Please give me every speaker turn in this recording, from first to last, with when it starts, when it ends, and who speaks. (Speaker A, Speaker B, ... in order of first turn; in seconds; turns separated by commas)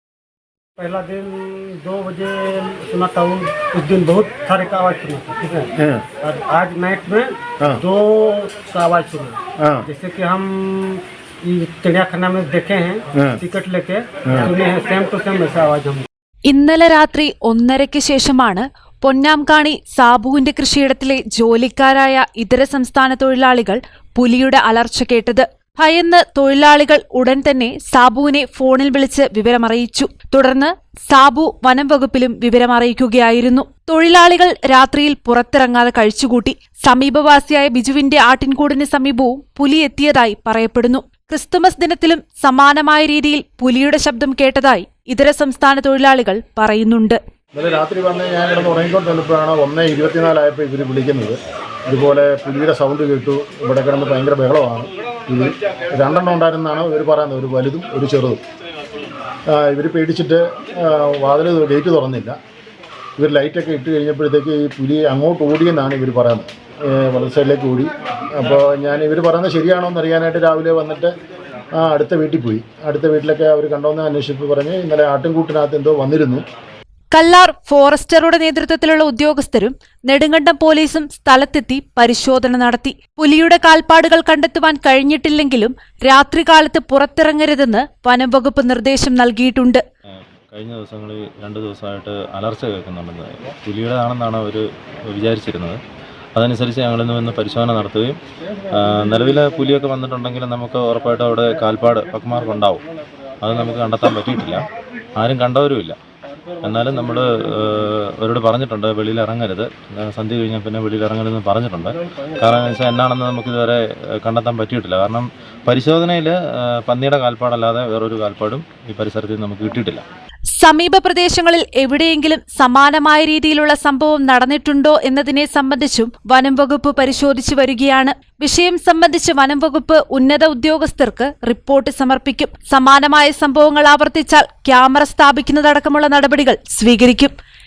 Speaker A: 0.8-16.1, Speaker B: 5.8-6.1, Speaker B: 9.6-9.9, Speaker B: 13.2-13.4, Speaker C: 16.5-47.1, Speaker B: 47.5-51.4, Speaker B: 51.9-58.4, Speaker B: 59.5-62.4, Speaker B: 63.2-71.1, Speaker B: 71.8-76.4, Speaker C: 77.2-89.8, Speaker D: 90.5-95.8, Speaker D: 96.3-98.2, Speaker D: 98.7-102.8, Speaker D: 103.4-104.7, Speaker D: 105.2-106.0, Speaker D: 106.6-120.0, Speaker C: 120.6-137.3